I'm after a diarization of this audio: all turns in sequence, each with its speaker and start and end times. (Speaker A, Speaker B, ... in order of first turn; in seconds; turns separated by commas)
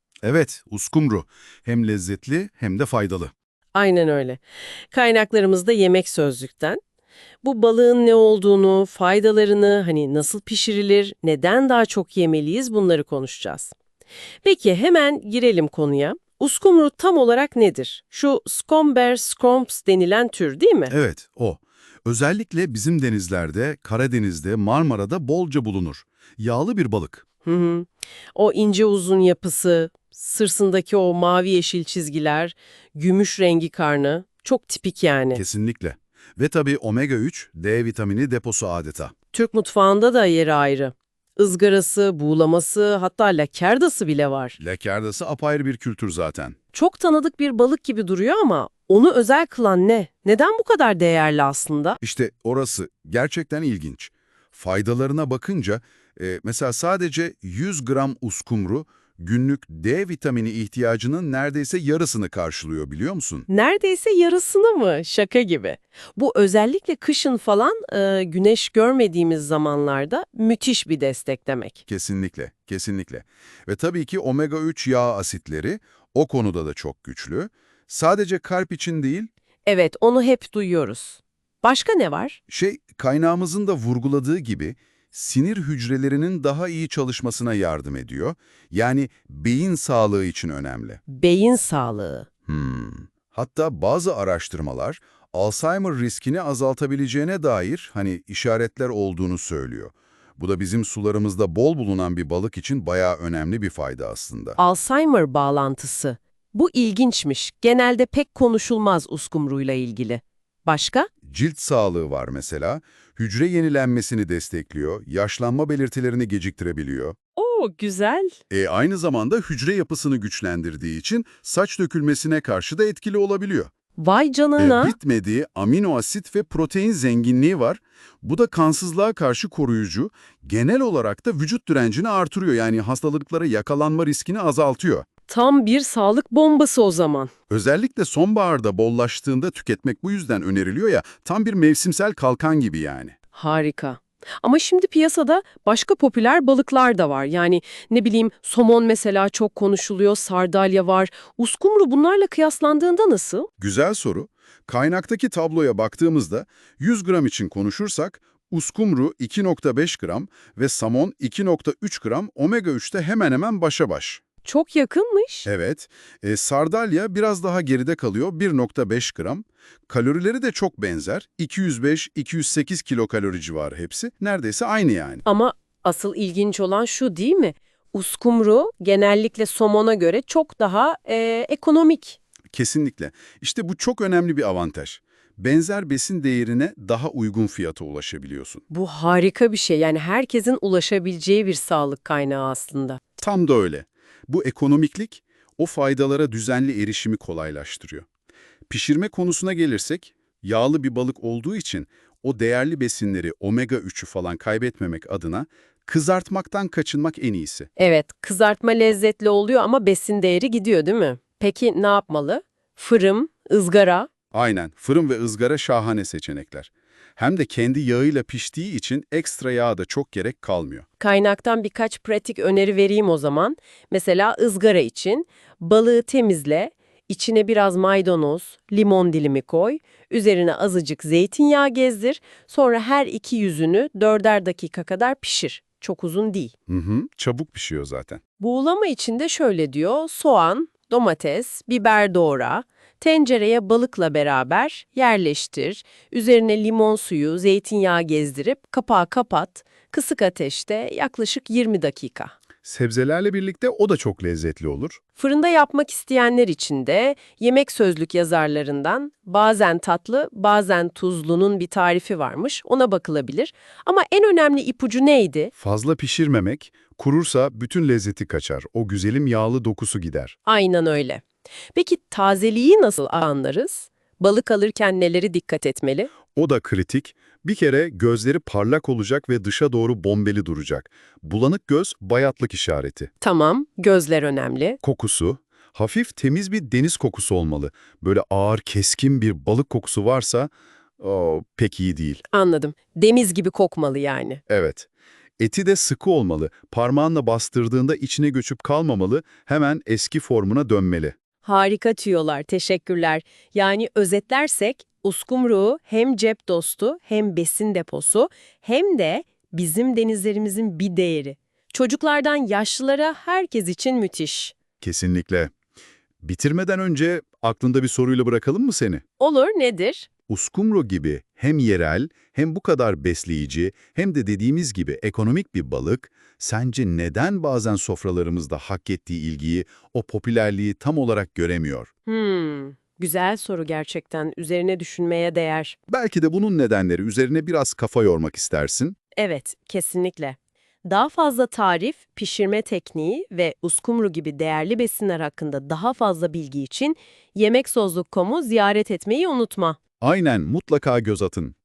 Speaker A: 0.2-3.3, Speaker B: 3.8-6.8, Speaker B: 7.4-13.7, Speaker B: 14.4-20.9, Speaker A: 20.9-27.2, Speaker B: 27.4-35.4, Speaker A: 35.3-39.1, Speaker B: 39.3-44.6, Speaker A: 44.6-46.6, Speaker B: 46.7-52.0, Speaker A: 52.0-63.5, Speaker B: 63.5-71.8, Speaker A: 71.9-79.3, Speaker B: 79.7-82.4, Speaker A: 82.5-91.0, Speaker B: 91.1-92.3, Speaker A: 92.5-104.6, Speaker B: 104.6-111.1, Speaker A: 111.2-117.2, Speaker B: 117.4-118.4, Speaker A: 118.5-123.7, Speaker B: 124.0-125.0, Speaker A: 124.6-135.1, Speaker B: 135.3-137.3, Speaker A: 137.5-143.2, Speaker B: 143.3-153.5, Speaker A: 153.6-164.2, Speaker B: 164.4-165.5, Speaker A: 165.5-175.2, Speaker B: 175.3-182.2, Speaker A: 182.5-188.6, Speaker B: 188.7-193.0, Speaker A: 193.2-198.1, Speaker A: 198.7-207.7, Speaker B: 207.8-214.1, Speaker A: 214.3-220.9, Speaker B: 221.0-236.5, Speaker A: 236.7-238.2, Speaker B: 238.4-252.3, Speaker A: 252.6-255.0, Speaker B: 255.2-265.5, Speaker A: 265.6-270.4, Speaker B: 270.5-271.2, Speaker B: 271.7-276.1, Speaker A: 276.3-283.1, Speaker B: 283.2-284.8, Speaker A: 284.8-292.2, Speaker B: 292.3-294.4, Speaker A: 294.5-294.9, Speaker A: 295.4-301.1, Speaker B: 301.4-314.6, Speaker A: 314.8-315.5, Speaker A: 316.2-319.0, Speaker B: 319.2-320.1, Speaker A: 320.3-331.9, Speaker B: 332.1-335.8, Speaker A: 335.9-338.9, Speaker B: 339.2-349.8, Speaker A: 350.0-351.6